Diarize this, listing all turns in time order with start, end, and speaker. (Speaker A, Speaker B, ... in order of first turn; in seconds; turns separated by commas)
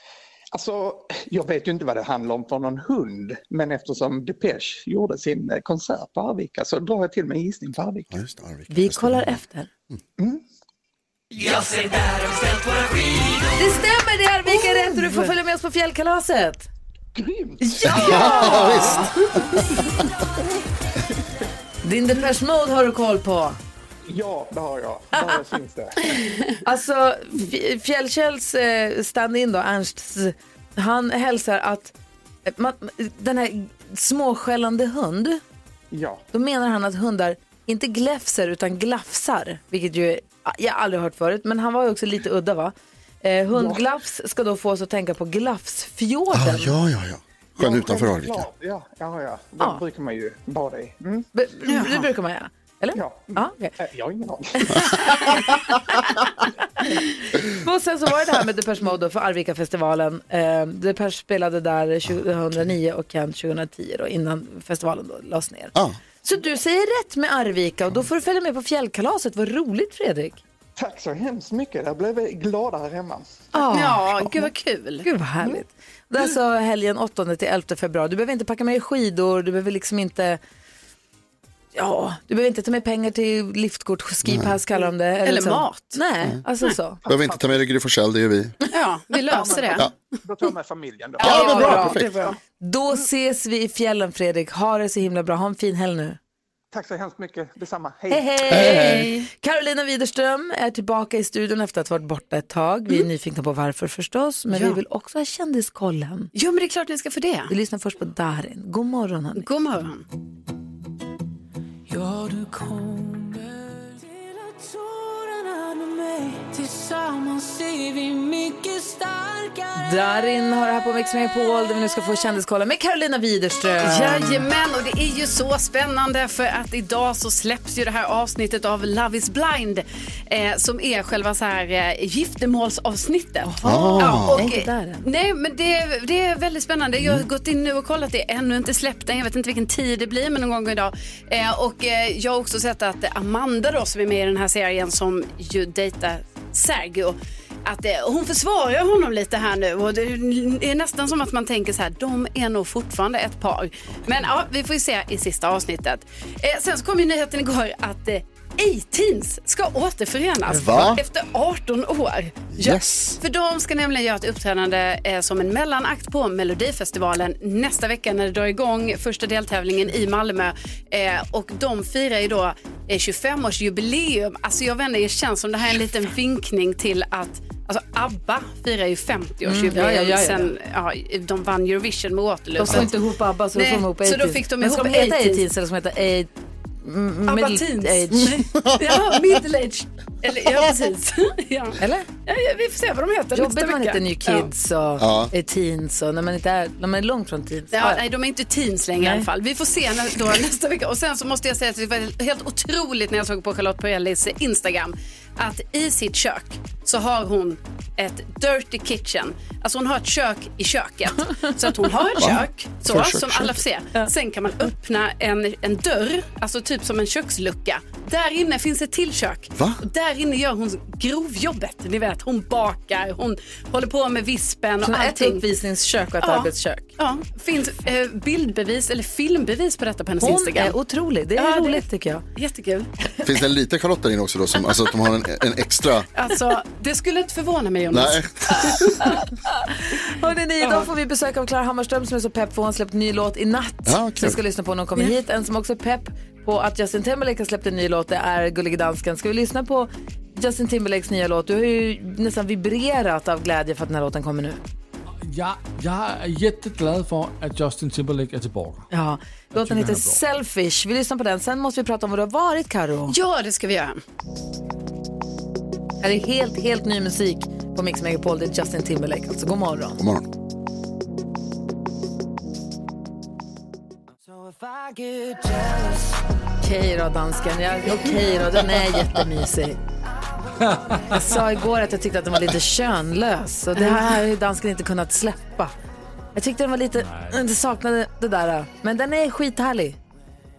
Speaker A: 0.5-8.1, Speaker B: 8.1-9.4, Speaker C: 8.7-9.7, Speaker C: 13.5-16.7, Speaker A: 17.1-18.9, Speaker C: 17.6-19.0, Speaker B: 17.9-19.8, Speaker D: 18.1-19.3, Speaker C: 21.8-23.6, Speaker A: 24.1-26.2, Speaker C: 26.6-31.9, Speaker C: 32.5-35.4, Speaker A: 35.9-36.2, Speaker C: 36.3-46.7, Speaker A: 43.5-43.9, Speaker B: 46.3-48.5, Speaker A: 47.6-51.3, Speaker C: 51.3-53.7, Speaker D: 51.7-52.0, Speaker A: 52.9-55.2, Speaker C: 54.5-56.1, Speaker C: 56.8-70.4, Speaker A: 70.8-73.3, Speaker C: 73.5-74.5, Speaker D: 73.7-75.1, Speaker C: 75.0-80.4, Speaker C: 81.7-87.0, Speaker B: 84.2-84.5, Speaker D: 85.2-86.0, Speaker B: 87.0-88.5, Speaker A: 87.1-87.5, Speaker D: 88.7-89.9, Speaker A: 89.3-92.0, Speaker B: 91.2-92.2, Speaker D: 91.2-92.3, Speaker C: 91.2-92.0, Speaker C: 92.6-96.2, Speaker A: 96.7-98.7, Speaker C: 98.1-106.3, Speaker B: 98.5-99.1, Speaker D: 98.7-99.3, Speaker D: 104.5-104.8, Speaker D: 106.3-107.5, Speaker C: 107.5-109.5, Speaker D: 109.4-110.0, Speaker E: 111.9-119.8, Speaker C: 119.8-124.4, Speaker D: 123.8-182.9, Speaker C: 133.4-135.1, Speaker B: 133.6-134.5, Speaker B: 160.5-161.0, Speaker B: 162.5-163.2, Speaker C: 179.4-180.5, Speaker C: 182.6-186.3, Speaker D: 183.5-185.4, Speaker C: 186.8-188.4, Speaker D: 187.3-194.5, Speaker B: 188.5-188.9, Speaker C: 191.8-192.1, Speaker C: 193.3-198.0, Speaker B: 195.0-195.3, Speaker D: 197.7-225.4, Speaker C: 199.0-199.2, Speaker B: 212.2-213.6, Speaker B: 219.5-219.8, Speaker C: 224.8-226.9, Speaker D: 226.2-230.8, Speaker C: 230.2-232.2, Speaker D: 231.4-232.9, Speaker B: 233.2-236.1, Speaker D: 236.1-239.2, Speaker B: 237.9-238.9, Speaker C: 239.8-254.6, Speaker B: 243.8-244.4, Speaker F: 255.2-258.9, Speaker C: 258.9-263.1, Speaker F: 259.5-260.2, Speaker D: 263.1-264.0, Speaker C: 266.0-270.0, Speaker B: 270.0-270.2, Speaker C: 276.6-279.8, Speaker F: 280.6-281.1, Speaker C: 281.1-285.7, Speaker D: 283.8-284.2, Speaker C: 286.3-290.0, Speaker F: 287.0-287.4